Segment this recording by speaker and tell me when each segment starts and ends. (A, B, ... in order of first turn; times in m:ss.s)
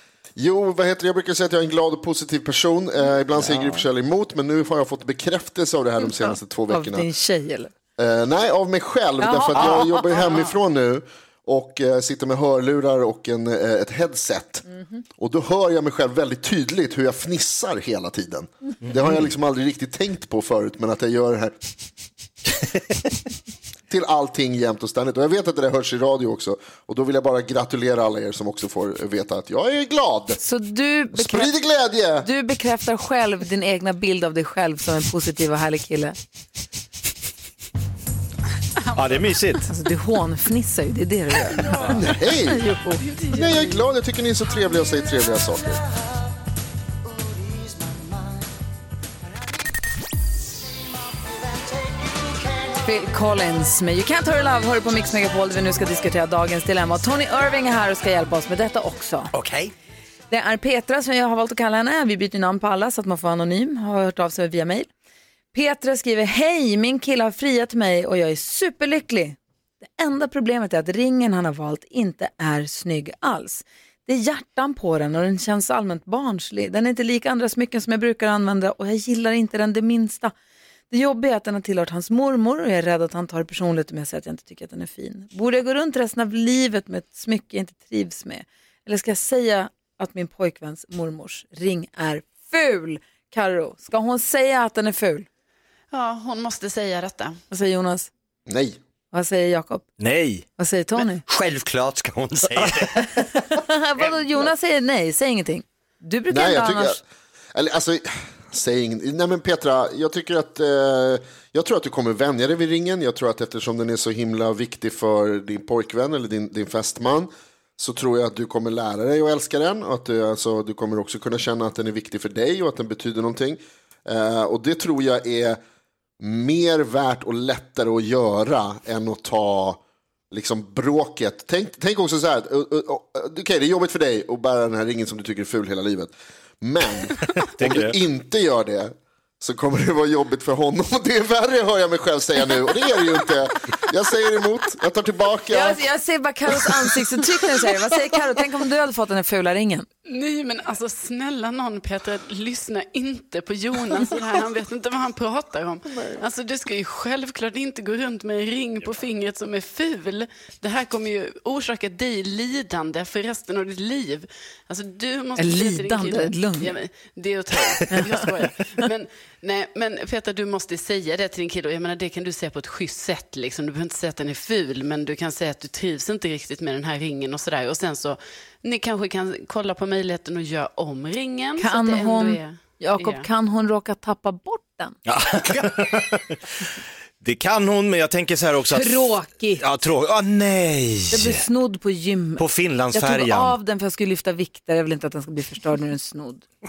0:00.4-0:07.1 A
0:03.4-0:03.7 B
0:06.0-0:07.7 C
0:08.0-0:14.6 A
0:09.2-0:10.3 C
0:10.1-0:10.5 D
0:15.2-0:21.5 A
0:23.9-0:30.4 A
0:30.4-0:31.5 C
0:31.1-0:32.3 A
0:32.2-0:36.2 C
0:38.9-0:39.7 B
0:39.7-0:43.4 C
0:41.9-0:42.6 A
0:43.1-0:43.6 D
0:43.3-0:45.8 A
0:52.8-0:59.3 C
0:59.3-0:59.7 E
1:00.3-1:04.9 C
1:05.5-1:20.3 C
1:20.9-1:35.3 C
1:35.9-1:37.4 D
1:37.5-1:38.1 C
1:38.5-1:38.8 A
1:39.1-1:39.8 C
1:40.0-1:40.4 B
1:40.6-1:41.2 C
1:41.2-1:43.1 E
1:43.2-1:47.0 C
1:46.3-1:47.0 A
1:47.5-2:05.6 A
2:06.2-2:09.8 A
2:10.3-2:25.8 A
2:17.6-2:18.0 B
2:25.5-2:29.9 C
2:30.0-3:03.3 D
2:45.4-2:46.7 C
3:01.6-3:05.0 C
3:05.0-3:06.4 B
3:07.2-3:11.4 B
3:08.7-3:09.6 C
3:11.1-3:16.4 C
3:12.4-3:13.5 B